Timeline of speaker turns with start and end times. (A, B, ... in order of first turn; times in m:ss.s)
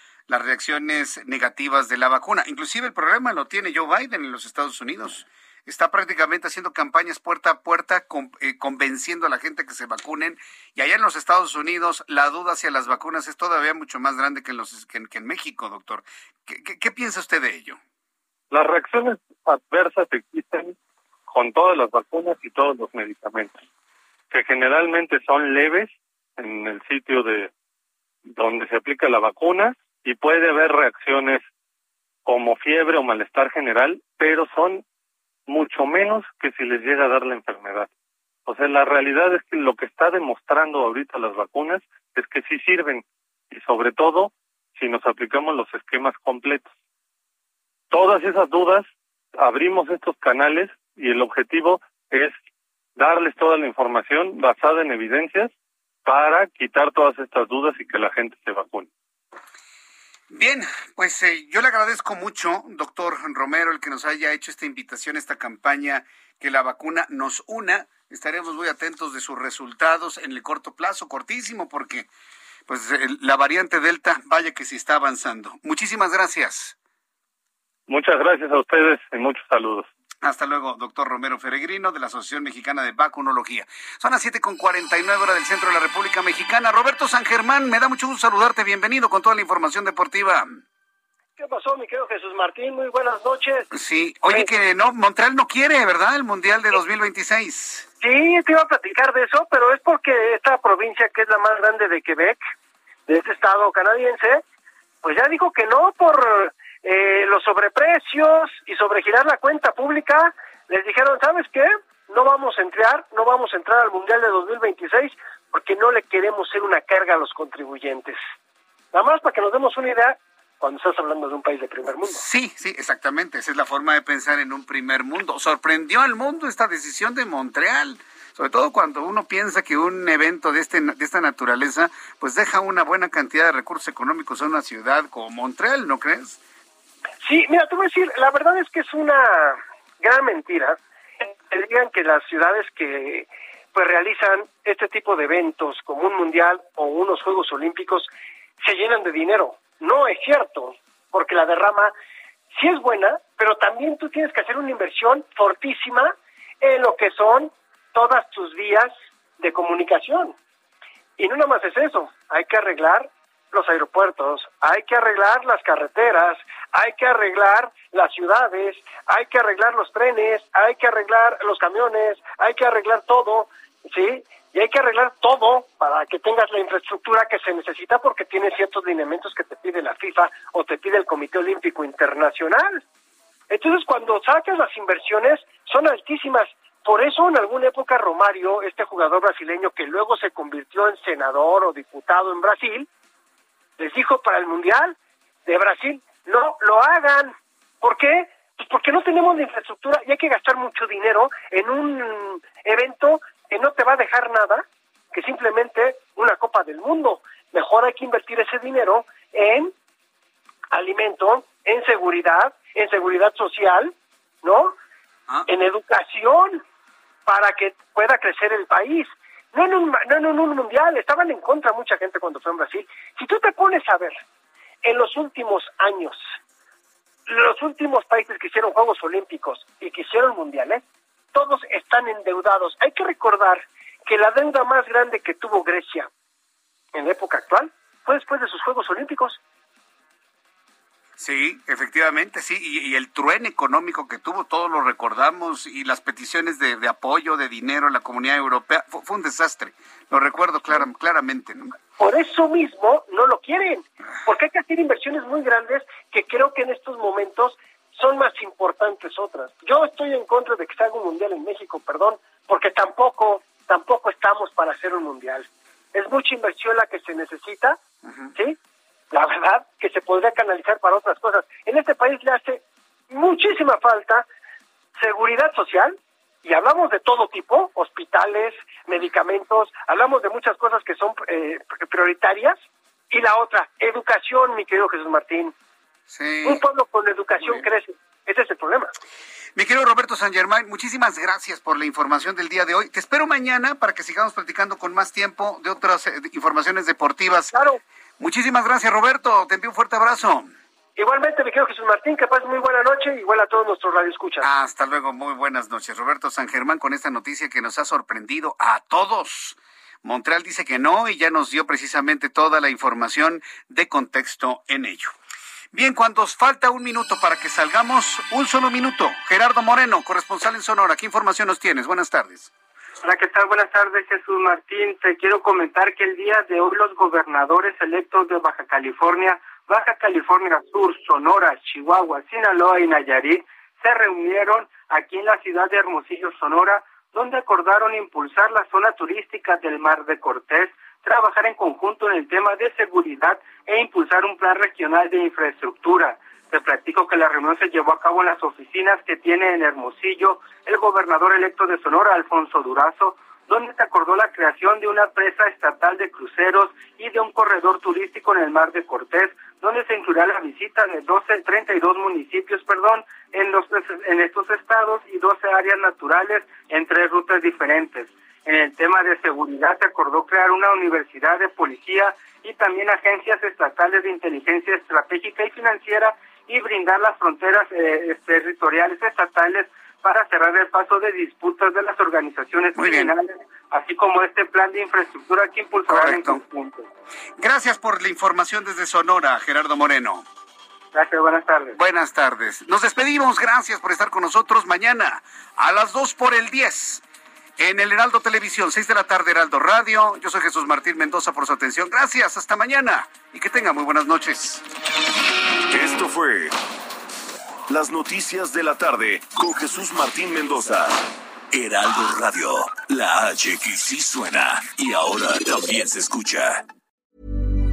0:00.3-0:17.8 A
0:18.5-0:20.8 B
0:21.3-0:23.6 B
0:24.3-0:27.5 B
0:28.3-0:31.4 B
0:32.3-0:34.8 B
0:35.5-0:37.9 B
0:38.5-0:46.7 B
0:47.9-0:52.4 B
0:53.0-0:55.5 B
0:56.0-0:58.9 B
1:00.3-1:12.1 A
1:12.7-1:16.8 A
1:17.9-1:19.9 B
1:20.2-1:30.6 A
1:31.4-1:33.7 C
1:33.7-1:37.9 A
1:38.0-1:42.4 C
1:43.1-1:44.4 C
1:45.0-1:58.2 C
1:58.9-2:02.2 C
2:02.1-2:16.4 A
2:17.2-2:28.1 C
2:28.6-2:31.9 C
2:32.5-2:40.4 C
2:41.2-3:02.8 C
3:03.5-3:12.9 C
3:13.8-3:29.7 C
3:30.7-3:34.8 C
3:35.5-3:36.6 C
3:37.3-3:44.2 C
3:44.8-3:46.3 C
3:47.3-3:56.1 C
3:56.9-3:59.4 C
4:01.2-4:11.7 A
4:12.0-4:27.8 C
4:29.1-4:34.3 C
4:35.0-4:45.5 C
4:46.1-4:46.6 A
4:46.4-4:48.9 C
4:49.6-4:57.5 A
4:57.5-4:57.8 C
4:58.2-5:00.6 A
5:01.0-5:04.5 C
5:04.4-5:15.1 A
5:15.7-5:22.5 A
5:23.1-6:26.8 D
6:22.8-6:23.1 A
6:25.9-6:26.4 A
6:27.4-6:30.3 A
6:31.0-6:31.7 D
6:31.7-6:37.0 A
6:37.6-6:44.6 A
6:45.7-6:46.5 E
6:47.7-6:56.6 E